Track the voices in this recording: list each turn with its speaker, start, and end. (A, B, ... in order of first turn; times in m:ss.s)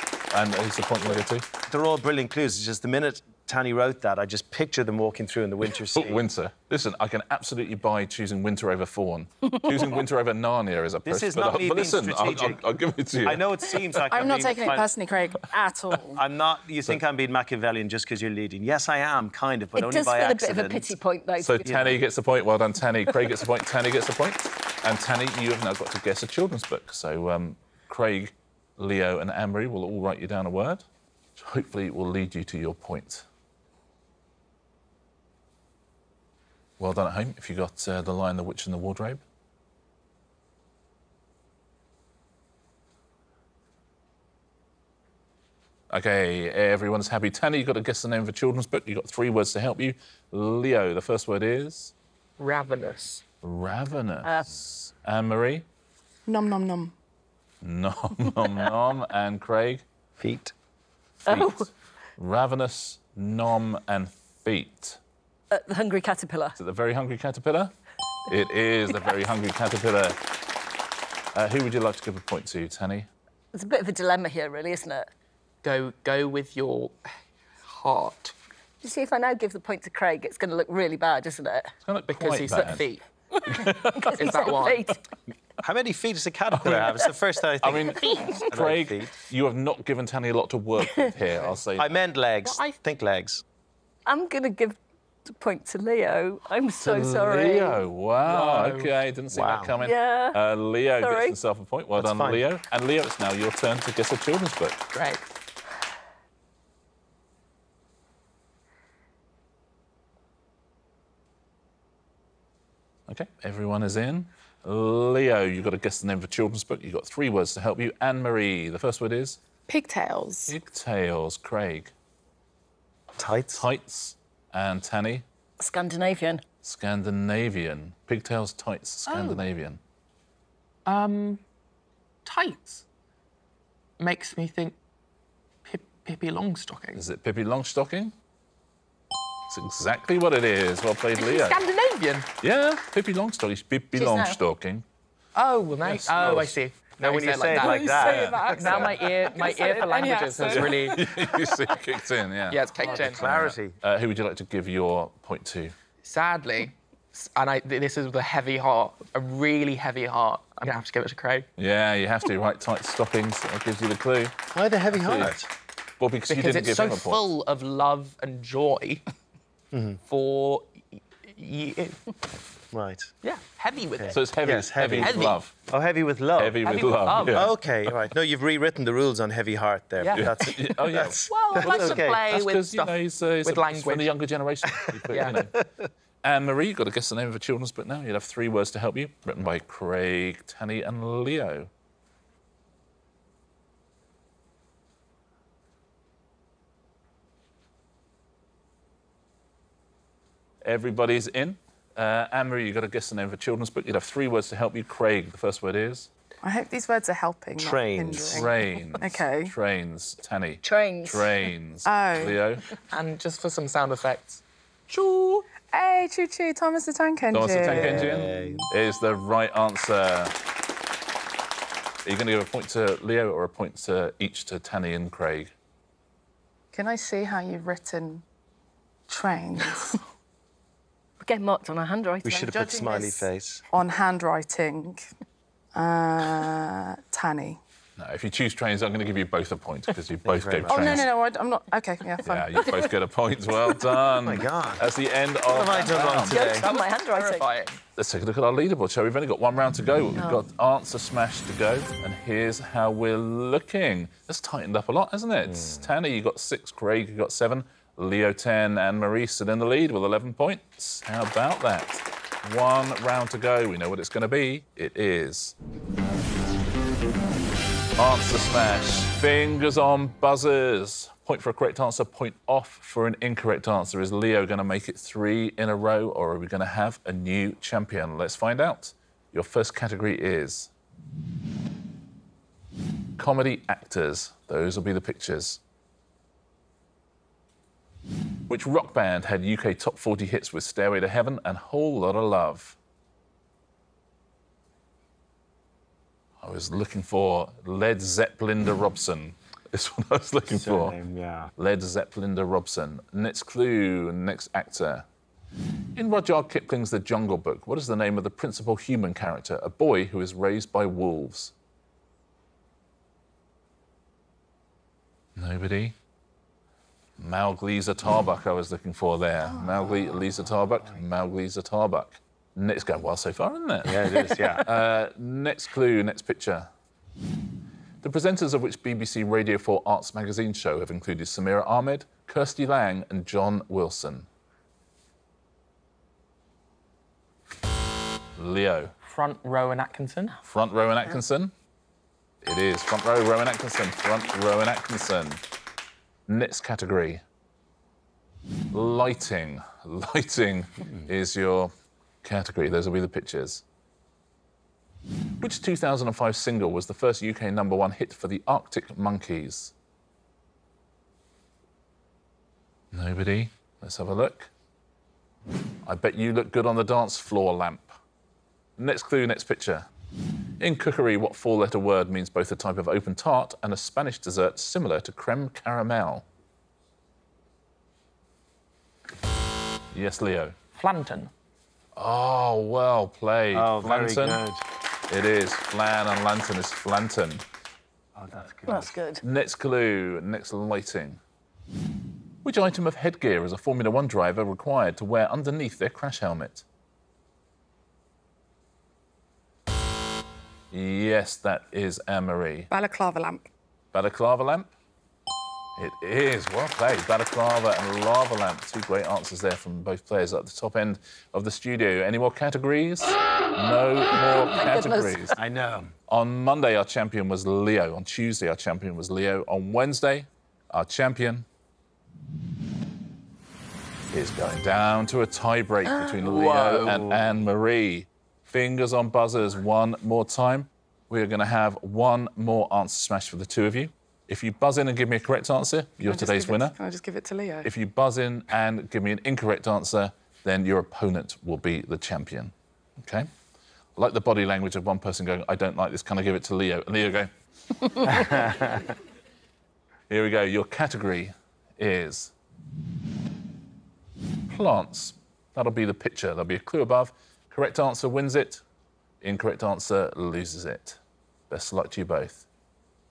0:00.3-0:01.5 A
0:01.7-0:06.2 B
0:05.8-0:14.0 A
0:11.0-0:12.6 B
0:13.2-0:14.9 B
0:14.1-0:16.2 C
0:16.1-0:20.9 B
0:19.8-0:21.9 D
0:21.4-0:30.8 A
0:31.4-0:33.2 A
0:36.8-0:39.2 A
0:45.9-0:51.9 A
0:52.4-0:53.2 E
0:53.4-0:55.6 A
0:56.3-0:56.9 C
0:57.6-0:59.8 A
1:00.2-1:00.5 B
1:01.2-1:05.0 A
1:01.3-1:01.6 D
1:05.5-1:06.6 D
1:06.6-1:07.7 A
1:08.3-1:10.2 A
1:11.3-1:13.1 A
1:13.5-1:15.1 D
1:15.6-1:17.1 E
1:17.6-1:18.4 E
1:18.8-1:21.7 D
1:21.8-1:22.8 A
1:22.1-1:25.0 E
1:23.4-1:24.2 A
1:23.9-1:25.0 D
1:25.6-1:29.1 B
1:26.6-1:26.9 A
1:27.6-1:32.0 A
1:31.8-1:33.4 B
1:32.4-1:32.7 E
1:34.0-1:37.8 D
1:36.8-1:44.8 A
1:38.3-1:38.9 E
1:39.3-1:39.7 B
1:39.8-1:40.4 D
1:41.0-1:41.4 D
1:42.0-1:42.4 B
1:44.9-1:45.2 E
1:53.1-1:59.4 A
1:59.7-2:00.5 C
2:00.5-2:01.9 A
2:03.2-2:03.6 B
2:03.5-2:05.2 A
2:05.6-2:06.4 D
2:06.6-2:09.8 A
2:09.1-2:09.4 E
2:10.8-2:11.4 E
2:12.2-2:12.8 E
2:14.0-2:14.8 E
2:15.6-2:17.0 E
2:16.9-2:18.1 A
2:19.5-2:21.6 A
2:21.1-2:22.3 E
2:22.4-2:24.8 A
2:23.9-2:24.4 D
2:25.3-2:31.0 E
2:25.8-2:26.5 A
2:26.1-2:29.2 B
2:27.5-2:31.0 C
2:30.5-2:35.7 A
2:32.5-2:33.3 E
2:32.8-2:33.8 B
2:36.0-2:41.5 E
2:41.6-2:44.4 A
2:44.5-2:45.5 B
2:44.9-2:45.4 A
2:46.0-2:47.2 A
2:46.3-2:49.0 E
2:49.7-2:50.0 B
2:50.0-2:52.1 E
2:52.7-2:53.1 B
2:53.2-2:54.2 E
2:54.0-3:02.2 B
2:54.1-2:55.5 A
2:55.0-2:55.4 E
2:56.4-2:57.5 A
2:56.6-2:57.5 E
3:00.0-3:00.5 E
3:00.1-3:05.5 A
3:01.2-3:04.1 E
3:04.7-3:05.9 B
3:05.1-3:05.4 E
3:06.2-3:11.7 A
3:20.6-3:26.1 A
3:26.4-3:29.5 C
3:27.6-3:28.5 B
3:28.2-3:32.6 A
3:30.6-3:31.4 D
3:31.8-3:32.4 C
3:32.9-3:35.5 E
3:35.7-3:38.6 C
3:37.3-3:40.3 A
3:37.6-3:38.7 B
3:42.0-3:45.5 A
3:46.7-3:48.2 C
3:49.1-3:50.0 C
3:51.2-3:52.7 D
3:52.2-3:53.6 B
3:52.3-3:55.1 C
3:55.7-3:57.6 C
3:58.0-4:01.1 A
4:00.2-4:01.1 B
4:00.7-4:02.7 C
4:02.2-4:06.4 A
4:04.2-4:04.9 B
4:05.5-4:06.7 B
4:06.3-4:07.5 D
4:06.4-4:07.8 E
4:08.0-4:25.6 A
4:10.2-4:10.4 D
4:15.5-4:15.9 B
4:28.0-4:40.7 A
4:43.2-4:45.6 A
4:48.5-4:52.8 A
4:56.4-5:01.0 A
5:00.5-5:01.5 B
5:01.6-5:05.0 A
5:06.0-5:11.5 A
5:15.4-5:16.0 A
5:17.2-5:26.7 A
5:23.8-5:24.7 B
5:28.0-5:34.3 A
5:38.4-5:38.9 A
5:39.0-5:40.4 E
5:40.5-5:41.5 A
5:42.4-5:45.4 A
5:46.3-5:47.2 A
5:48.7-5:51.7 A
5:52.2-5:53.6 A
5:55.4-5:59.7 A
6:02.9-6:04.5 A
6:05.8-6:08.0 A
6:08.8-6:09.9 A
6:10.6-6:16.2 A
6:19.9-6:20.6 A
6:20.7-6:21.3 E
6:22.0-6:24.4 A
6:23.5-6:24.6 B
6:25.1-6:27.4 A
6:28.1-6:28.9 B
6:28.7-6:29.2 D
6:29.2-6:31.2 A
6:32.4-6:36.6 A
6:40.7-6:42.7 A
6:42.7-6:43.4 C
6:43.9-6:44.7 A
6:45.8-6:55.4 A
6:54.5-6:55.4 D
6:55.4-6:55.9 B
6:56.1-7:01.5 A
7:04.1-7:16.8 A
7:06.1-7:07.1 E
7:16.1-7:17.7 C
7:17.6-7:23.3 A
7:24.0-7:27.3 A
7:27.9-7:28.4 A
7:28.1-7:28.8 B
7:30.1-7:32.3 A
7:34.5-7:38.6 A
7:39.2-7:42.4 A